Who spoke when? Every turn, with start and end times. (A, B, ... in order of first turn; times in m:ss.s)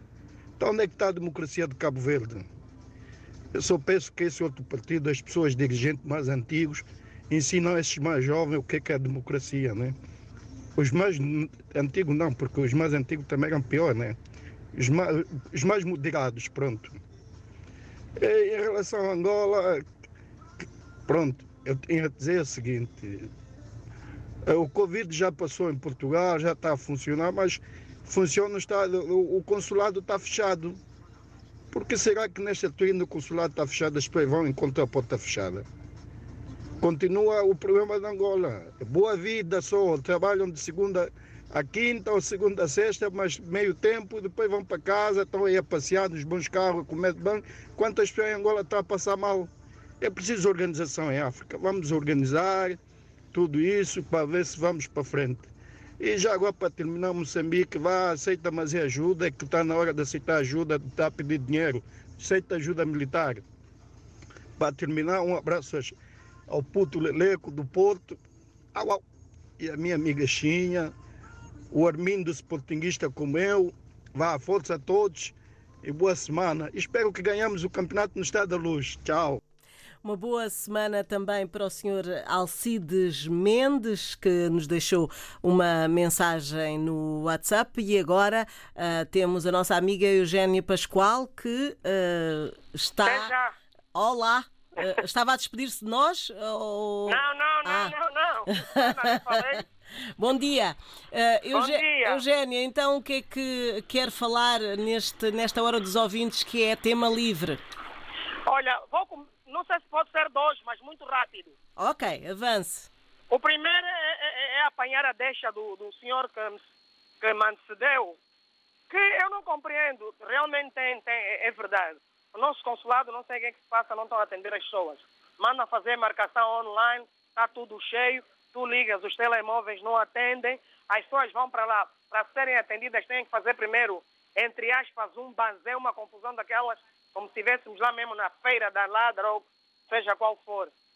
0:00.6-0:02.5 A
0:03.5-0:10.0 A
0:10.8-0:14.2 A
0:14.7-0:16.9 A
0:18.2-0:19.8 A
0:21.1-0:23.3 A
0:24.4-0:30.8 A
0:31.7-0:35.6 A
0:36.8-0:52.8 A
0:53.3-1:03.4 A
1:04.6-1:05.9 A
1:06.5-1:08.2 A
1:08.7-1:09.0 A
1:09.6-1:10.9 A
1:11.7-1:19.4 A
1:20.0-1:33.3 B
1:33.0-1:33.5 C
1:33.9-1:37.9 B
1:37.1-1:39.6 C
1:38.5-1:39.4 B
1:40.2-1:47.6 B
1:41.5-1:42.2 C
1:48.4-1:51.6 C
1:51.8-1:52.9 B
1:53.3-1:56.6 C
1:57.2-1:58.2 C
1:58.9-2:20.7 C